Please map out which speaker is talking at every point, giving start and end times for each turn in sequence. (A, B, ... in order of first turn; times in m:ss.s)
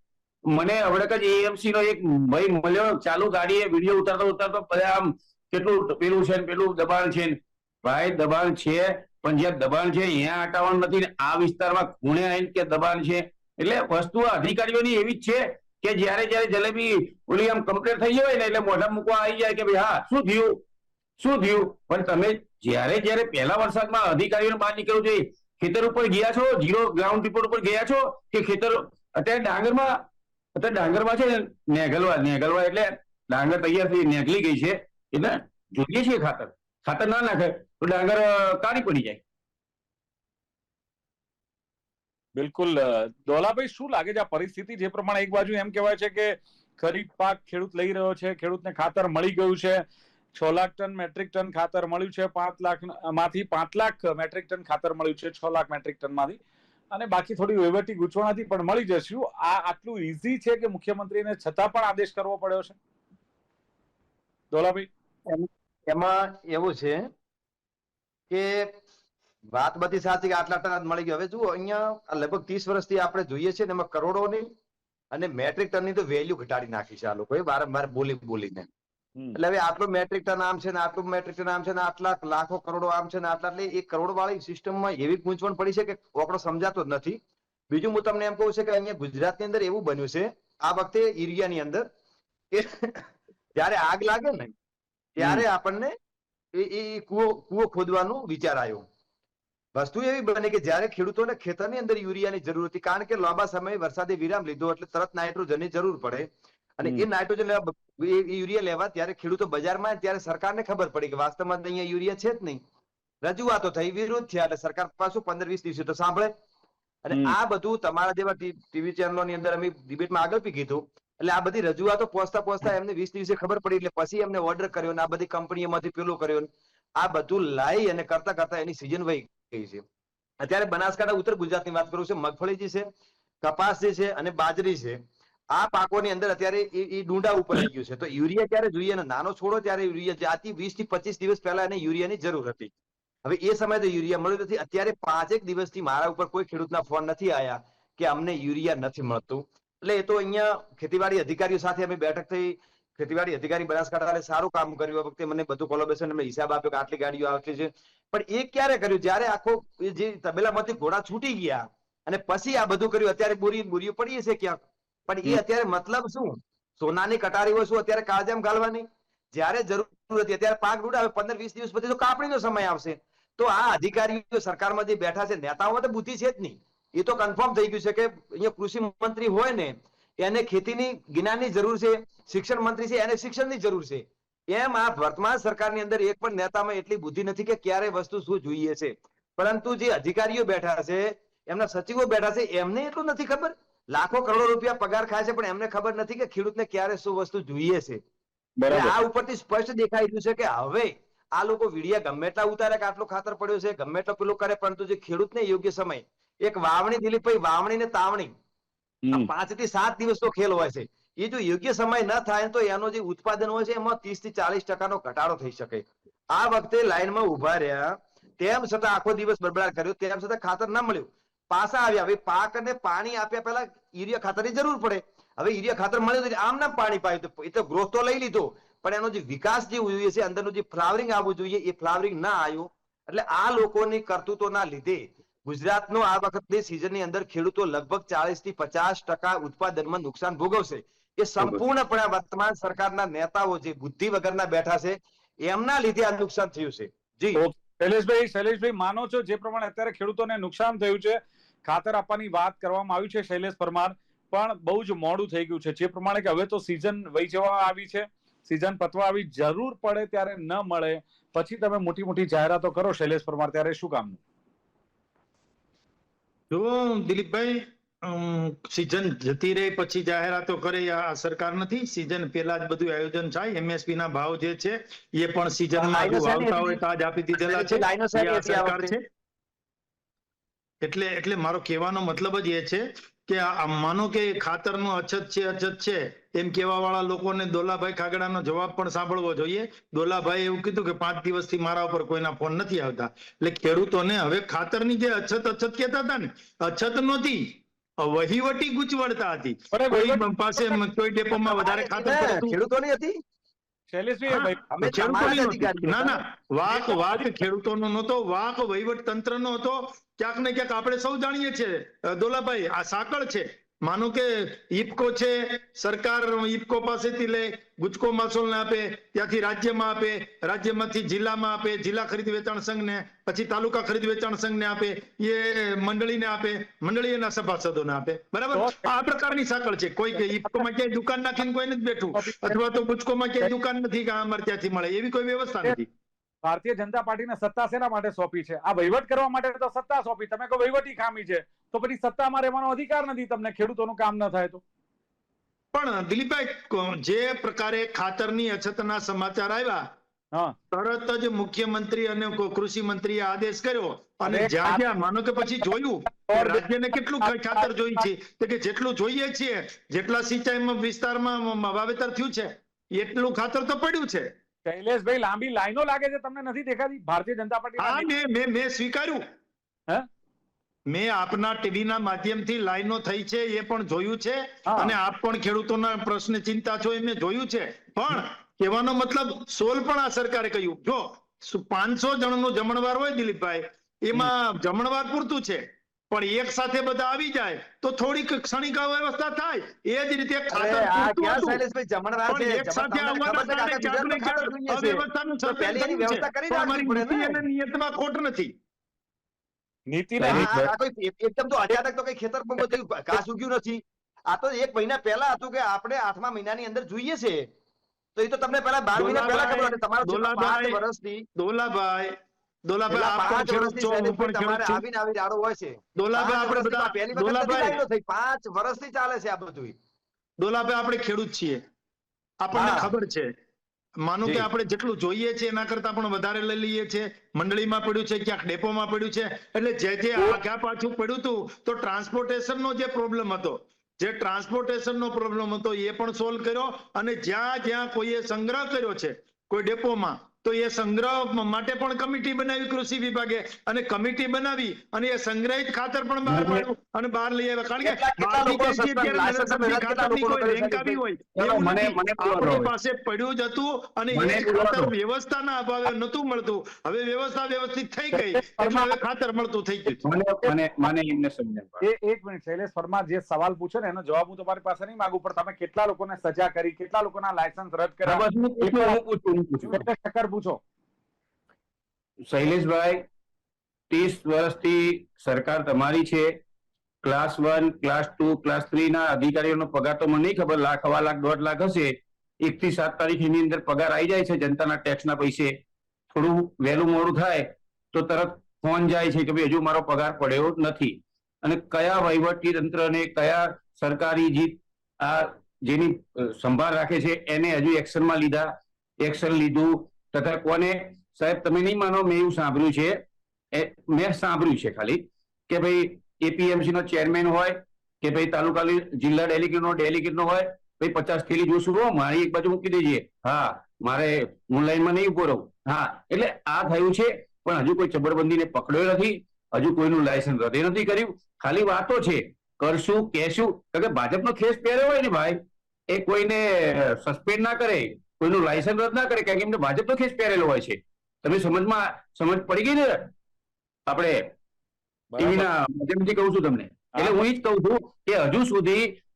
0:00.5-0:20.6 A
0:21.2-0:30.0 A
0:30.6-0:39.2 A
0:42.4-0:49.8 B
0:50.3-0:56.4 B
0:56.9-1:02.8 B
1:04.5-1:04.9 B
1:05.3-1:07.1 C
1:08.3-1:08.7 C
1:09.5-1:14.5 C
1:15.1-1:18.7 C
1:19.3-1:27.2 C
1:27.7-1:31.8 C
1:32.5-1:33.0 C
1:33.6-1:34.5 C
1:35.2-1:35.9 C
1:36.6-1:38.8 C
1:39.8-1:46.3 C
1:46.8-1:52.6 C
1:53.2-1:56.3 C
1:57.0-2:09.8 C
2:10.4-2:12.9 C
2:13.4-2:15.0 C
2:15.5-2:22.7 C
2:23.2-3:18.0 C
3:18.6-3:19.0 B
3:18.7-3:28.3 C
3:29.1-4:07.4 C
4:07.3-4:24.2 B
4:26.5-4:39.0 D
4:35.8-4:36.8 C
4:37.4-4:38.9 C
4:40.8-5:02.6 D
4:59.7-5:00.8 B
5:01.4-5:03.2 C
5:03.9-5:05.1 B
5:04.3-5:35.9 D
5:04.7-5:06.2 C
5:06.7-5:07.2 B
5:28.5-5:28.9 B
5:32.2-5:32.6 B
5:36.4-5:44.6 B
5:45.7-5:49.8 D
5:50.7-6:04.3 D
5:54.3-5:54.9 B
5:56.1-5:58.1 B
6:04.7-6:08.1 B
6:07.8-6:09.2 D
6:10.9-6:31.6 D
6:14.7-6:15.0 B
6:30.5-6:37.4 C
6:32.3-6:38.5 D
6:39.9-6:40.5 B
6:40.2-6:40.7 A
6:40.2-6:47.5 C
6:48.2-6:51.2 C
6:48.9-6:50.8 D
6:51.4-6:52.2 D
6:52.7-6:54.8 D
6:52.9-6:59.7 C
6:56.0-6:57.8 D
7:00.4-7:01.6 D
7:02.4-7:03.3 D
7:02.5-7:02.9 C
7:04.0-7:40.0 D
7:26.3-7:26.7 A
7:27.8-7:31.0 C
7:31.4-7:32.7 A
7:34.1-7:34.9 A
7:38.1-7:39.0 B
7:40.0-7:41.8 A
7:41.8-7:49.0 B
7:48.0-7:49.8 A
7:49.7-7:50.6 B
7:52.3-7:53.0 A
7:53.9-7:56.3 A
7:57.0-8:05.5 A
8:06.1-8:23.0 A
8:23.5-8:45.4 A
8:45.9-8:53.1 A
8:53.9-8:54.3 A
8:55.1-8:55.5 B
8:55.2-8:58.9 A
8:56.9-8:57.2 B